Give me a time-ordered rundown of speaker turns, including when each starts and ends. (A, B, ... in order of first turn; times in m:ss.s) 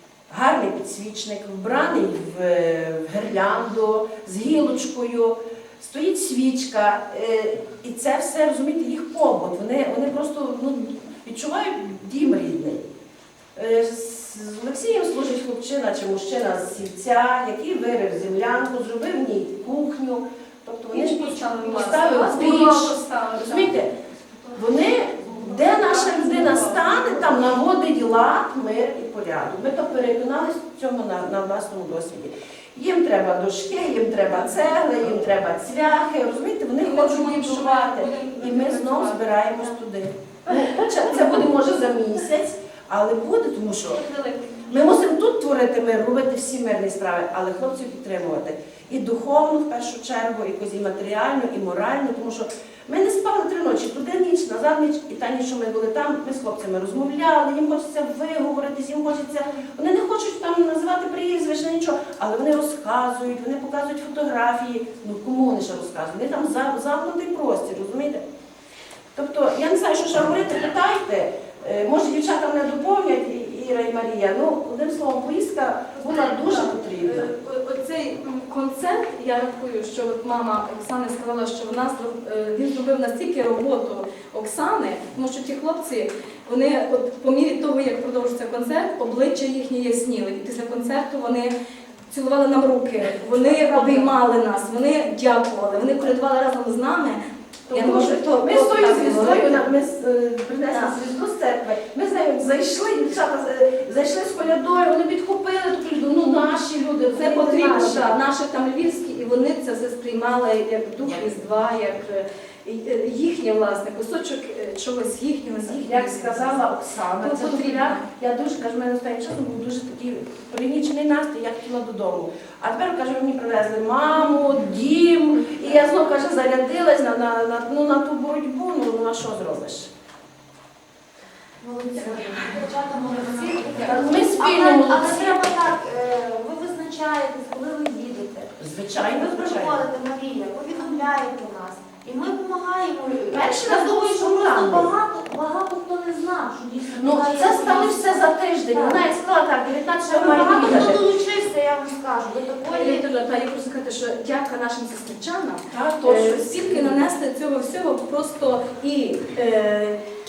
0:00.3-0:12.8 A
0:13.6-0:23.9 A
0:20.9-0:23.8 B
0:24.5-0:44.0 A
0:25.3-0:27.4 B
0:36.8-0:39.7 B
0:40.6-0:41.4 B
0:43.9-0:44.8 B
0:44.7-1:08.2 A
1:09.2-1:17.3 A
1:16.0-1:31.5 B
1:32.1-1:39.7 B
1:33.4-1:34.1 A
1:37.7-1:48.2 A
1:40.7-1:41.0 B
1:47.1-1:58.1 B
1:55.6-2:09.9 A
2:11.6-2:18.6 C
2:13.7-2:15.4 A
2:18.6-2:19.8 A
2:19.2-2:29.0 C
2:23.3-2:24.9 A
2:27.0-2:31.0 A
2:30.0-2:33.1 C
2:32.7-2:40.0 B
2:35.7-2:37.0 A